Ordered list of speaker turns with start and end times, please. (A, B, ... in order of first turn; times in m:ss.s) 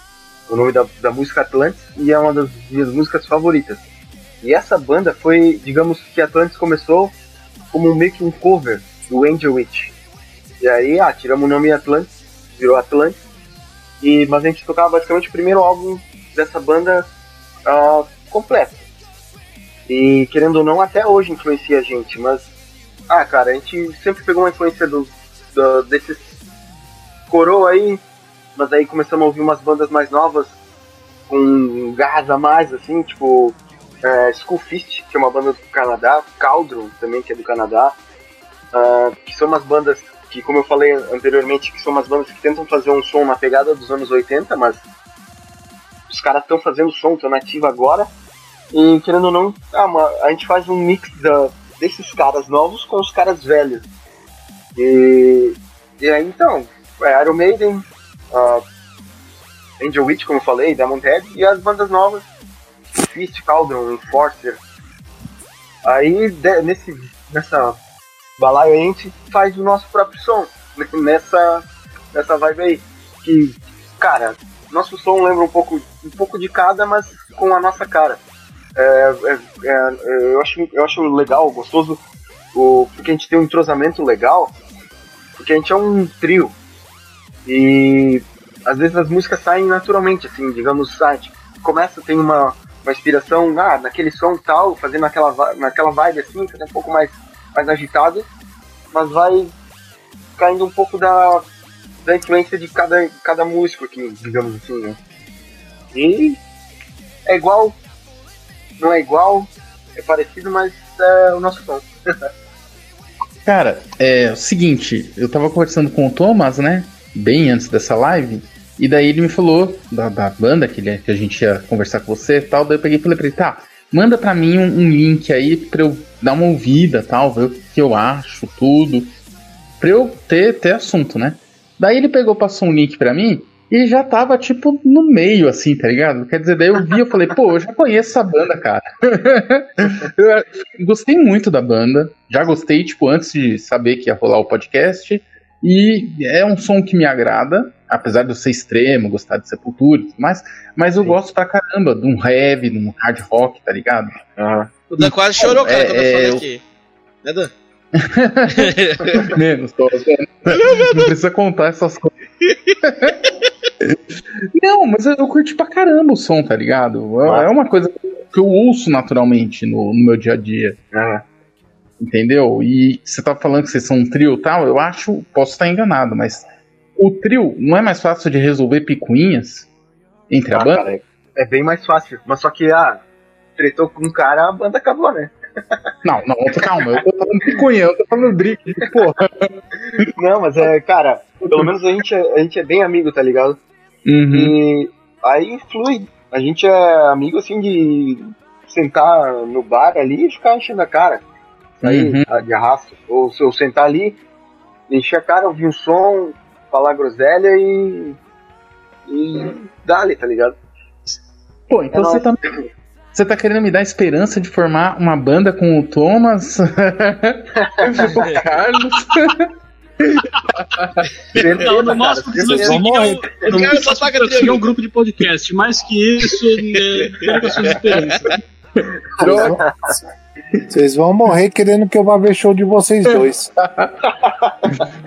0:00.5-0:03.8 A
0:04.4-0:07.1 A
0:07.7-0:09.9 A
0:10.6-0:13.2 A
0:14.0-0:17.1 A
0:17.6-0:18.8 A
0:19.9-0:22.5 A
0:23.1-0:26.3 A
0:27.3-0:28.0 A
0:28.6-0:30.6 A
0:31.3-0:38.0 A
0:38.7-0:44.8 A
0:46.1-0:48.1 A
0:48.7-0:53.8 A
0:54.8-0:58.6 A
0:59.8-1:02.2 A
1:03.0-1:04.6 A
1:05.8-1:07.8 A
1:08.4-1:18.2 A
1:18.8-1:22.0 A
1:22.5-1:24.5 A
1:25.4-1:26.5 A
1:27.4-1:38.3 A
1:38.9-1:39.5 A
1:40.4-1:41.4 A
1:42.0-1:45.0 A
1:45.9-1:46.4 A
1:47.2-1:47.8 A
1:48.8-1:51.8 A
1:53.4-2:09.1 B
2:09.8-2:34.1 B
2:34.4-2:34.7 A
2:34.9-2:36.6 C
2:35.0-2:36.4 B
2:37.2-2:37.5 C
2:37.9-2:42.1 B
2:38.5-2:39.3 C
2:40.5-2:41.1 C
2:42.5-2:42.7 C
2:42.8-2:43.2 B
2:44.6-2:50.8 B
2:47.2-2:47.5 A
2:50.9-2:51.2 A
2:52.0-2:59.7 B
3:00.3-3:00.9 B
3:00.5-3:03.0 A
3:03.6-3:05.9 A
3:06.0-3:10.1 B
3:10.1-3:13.6 A
3:14.0-3:14.6 B
3:14.3-3:21.2 A
3:21.8-3:24.2 A
3:21.8-3:22.2 B
3:24.9-3:28.2 A
3:29.1-3:30.6 A
3:31.7-3:32.4 B
3:31.9-3:32.3 A
3:33.1-3:39.5 B
3:37.6-3:38.4 A
3:38.1-3:38.4 C
3:40.0-3:41.1 B
3:41.3-3:43.6 A
3:41.6-3:48.3 D
3:42.4-3:43.3 E
3:43.4-3:44.7 C
3:49.2-3:49.6 B
3:49.2-3:49.9 E
3:49.2-3:49.9 A
3:50.7-3:53.5 E
3:53.1-3:54.0 B
3:54.2-3:54.8 A